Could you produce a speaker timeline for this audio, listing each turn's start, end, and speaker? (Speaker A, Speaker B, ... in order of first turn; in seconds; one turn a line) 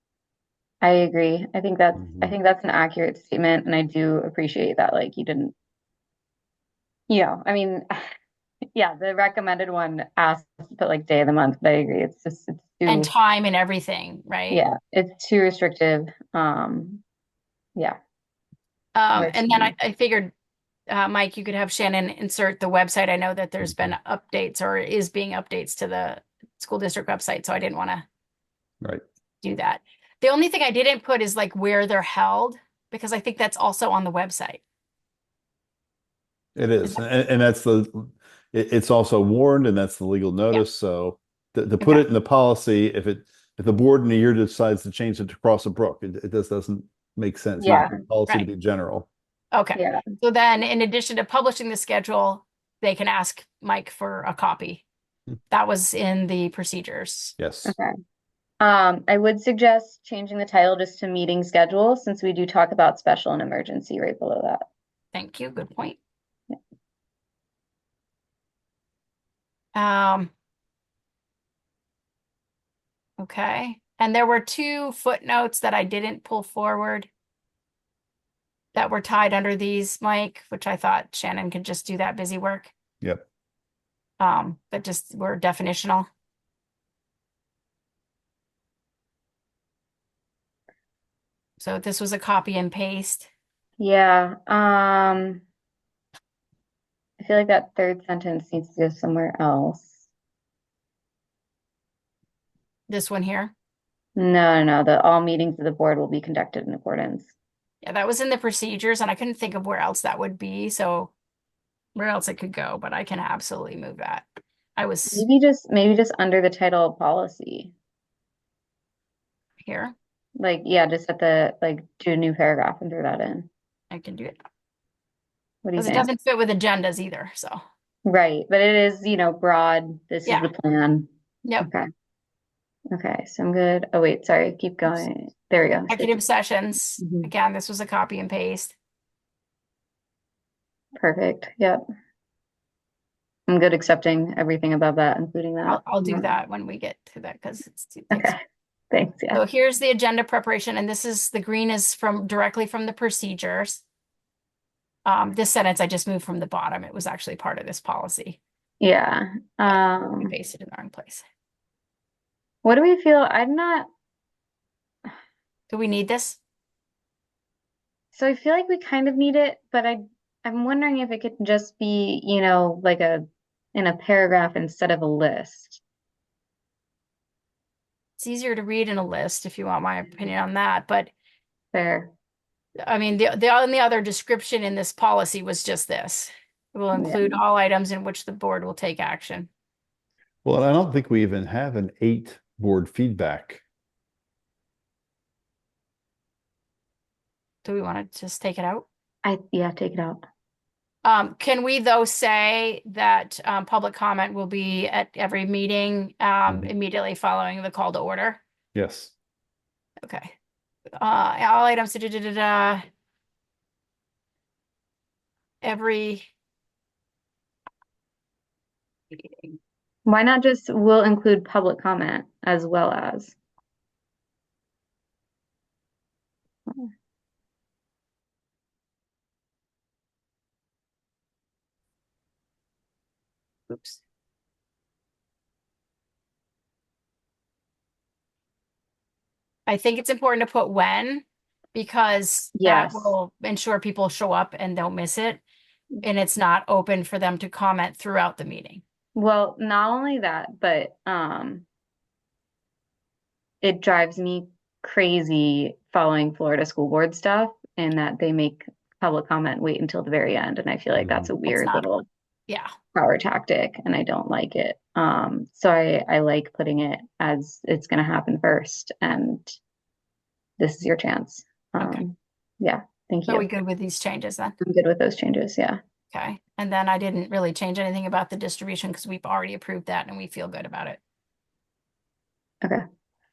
Speaker A: 0.8-5.5
Speaker B: 2.0-2.4
Speaker A: 7.1-7.9
Speaker A: 8.8-13.1
Speaker C: 12.9-14.6
Speaker A: 14.5-17.0
Speaker C: 18.9-20.3
Speaker A: 19.1-19.7
Speaker C: 20.9-28.1
Speaker C: 29.4-34.6
Speaker B: 36.6-49.1
Speaker A: 47.6-48.0
Speaker C: 49.5-54.8
Speaker A: 49.7-50.0
Speaker C: 55.5-57.4
Speaker B: 57.4-57.7
Speaker A: 57.6-57.9
Speaker A: 58.6-64.7
Speaker C: 65.1-66.0
Speaker C: 69.8-70.3
Speaker C: 73.2-77.1
Speaker C: 78.7-82.7
Speaker C: 84.2-86.1
Speaker C: 91.6-93.3
Speaker A: 93.8-95.4
Speaker A: 97.2-100.1
Speaker C: 102.9-103.5
Speaker A: 104.2-107.3
Speaker C: 107.8-111.1
Speaker C: 112.0-114.2
Speaker C: 114.8-115.3
Speaker A: 115.1-117.7
Speaker C: 119.6-119.9
Speaker A: 120.4-123.5
Speaker C: 123.9-124.4
Speaker A: 125.6-126.1
Speaker C: 125.8-127.6
Speaker A: 128.1-131.1
Speaker A: 131.6-131.9
Speaker A: 132.9-136.2
Speaker C: 135.9-138.8
Speaker A: 137.0-137.3
Speaker A: 141.0-141.8
Speaker A: 143.5-146.3
Speaker C: 145.7-148.3
Speaker A: 148.1-148.4
Speaker A: 148.9-149.4
Speaker C: 149.3-153.8
Speaker C: 155.1-158.4
Speaker A: 158.8-160.3
Speaker C: 159.7-161.2
Speaker A: 162.6-163.9
Speaker C: 165.7-166.4
Speaker A: 168.1-175.8
Speaker C: 178.2-181.1
Speaker A: 181.7-182.1
Speaker C: 182.8-189.5
Speaker A: 186.9-187.4
Speaker B: 190.4-193.6
Speaker C: 197.6-198.9
Speaker A: 199.2-200.2
Speaker C: 201.0-208.4
Speaker B: 208.8-209.1
Speaker C: 210.0-210.3
Speaker C: 211.0-212.8
Speaker C: 215.6-216.3
Speaker C: 219.1-219.6
Speaker A: 220.1-223.4
Speaker C: 233.7-234.0
Speaker C: 239.7-245.4
Speaker A: 242.6-243.2
Speaker C: 246.0-248.8
Speaker A: 249.2-251.7
Speaker A: 253.6-262.1
Speaker B: 260.9-261.3
Speaker C: 261.5-261.9
Speaker A: 262.9-269.6
Speaker A: 270.6-273.5
Speaker C: 271.8-272.0
Speaker C: 273.3-274.6
Speaker A: 274.6-275.8
Speaker C: 276.1-281.0